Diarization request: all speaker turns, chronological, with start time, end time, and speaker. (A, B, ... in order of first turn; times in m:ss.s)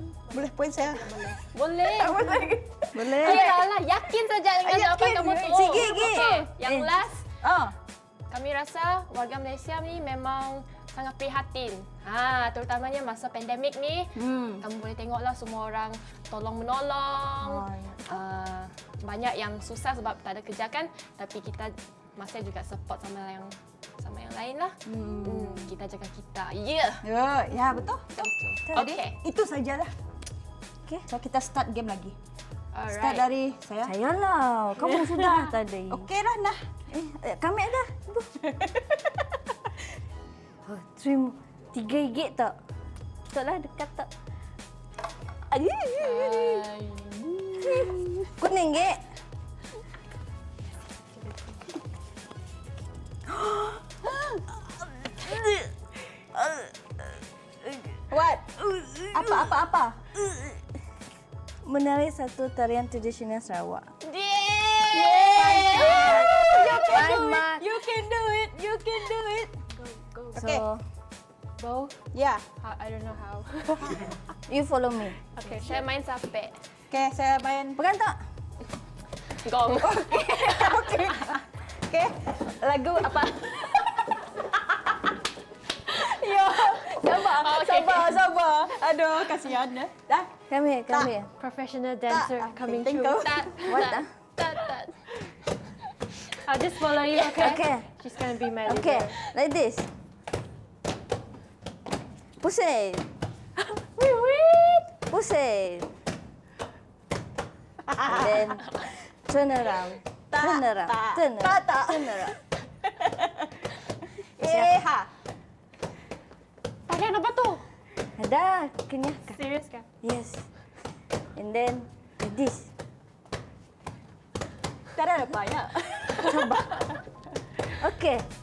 0:00.3-0:03.7 A
0:00.4-0:01.4 B
0:01.5-0:07.3 C
0:02.9-0:03.6 D
0:04.6-0:06.5 A
0:05.7-0:06.9 D
0:07.4-0:07.8 A
0:08.3-0:27.0 C
0:14.2-0:14.6 A
0:17.4-0:18.2 A
0:24.9-0:25.7 A
0:27.0-0:29.9 A
0:28.2-0:29.2 C
0:31.1-0:32.2 A
0:32.7-0:33.3 C
0:32.9-0:33.9 A
0:33.8-0:36.1 D
0:35.9-0:36.6 A
0:36.9-0:38.3 D
0:38.4-0:39.2 A
0:40.6-0:42.6 D
0:43.3-0:44.1 D
0:45.5-0:46.3 D
0:46.0-0:46.7 A
0:46.0-0:47.1 C
0:47.3-0:48.3 A
0:48.4-0:49.0 D
0:53.3-0:54.1 D
0:54.0-0:54.4 A
0:54.8-0:55.7 D
0:56.3-0:58.0 D
0:58.1-0:58.5 A
0:58.6-0:59.6 D
0:59.1-1:00.0 A
1:00.1-1:00.6 D
1:01.6-1:03.9 D
1:04.0-1:07.1 C
1:04.9-1:09.5 A
1:05.4-1:06.3 B
1:05.4-1:07.7 D
1:09.8-1:10.4 B
1:10.3-1:10.7 A
1:10.3-1:10.8 D
1:11.6-1:12.0 B
1:12.1-1:12.4 A
1:12.6-1:14.2 B
1:14.5-1:15.2 D
1:15.4-1:15.9 B
1:15.4-1:16.6 C
1:16.9-1:17.8 A
1:17.8-1:18.2 D
1:19.4-1:20.7 C
1:19.8-1:25.0 A
1:25.9-1:30.4 A
1:26.8-1:28.2 C
1:30.5-1:31.3 D
1:31.4-1:33.5 B
1:32.1-1:33.9 A
1:33.2-1:35.1 C
1:33.6-1:34.1 D
1:36.4-1:39.2 B
1:37.4-1:37.9 D
1:38.6-1:39.9 D
1:42.4-1:43.1 D
1:44.0-1:44.8 B
1:45.1-1:45.9 D
1:47.8-1:48.4 A
1:48.1-1:52.4 D
1:50.3-1:53.5 A
1:54.4-1:55.1 A
1:54.4-1:54.7 D
1:56.9-1:57.6 C
1:58.2-1:59.4 D
1:59.4-1:59.8 B
2:00.0-2:00.5 D
2:01.4-2:02.7 D
2:05.0-2:07.0 A
2:07.8-2:08.3 D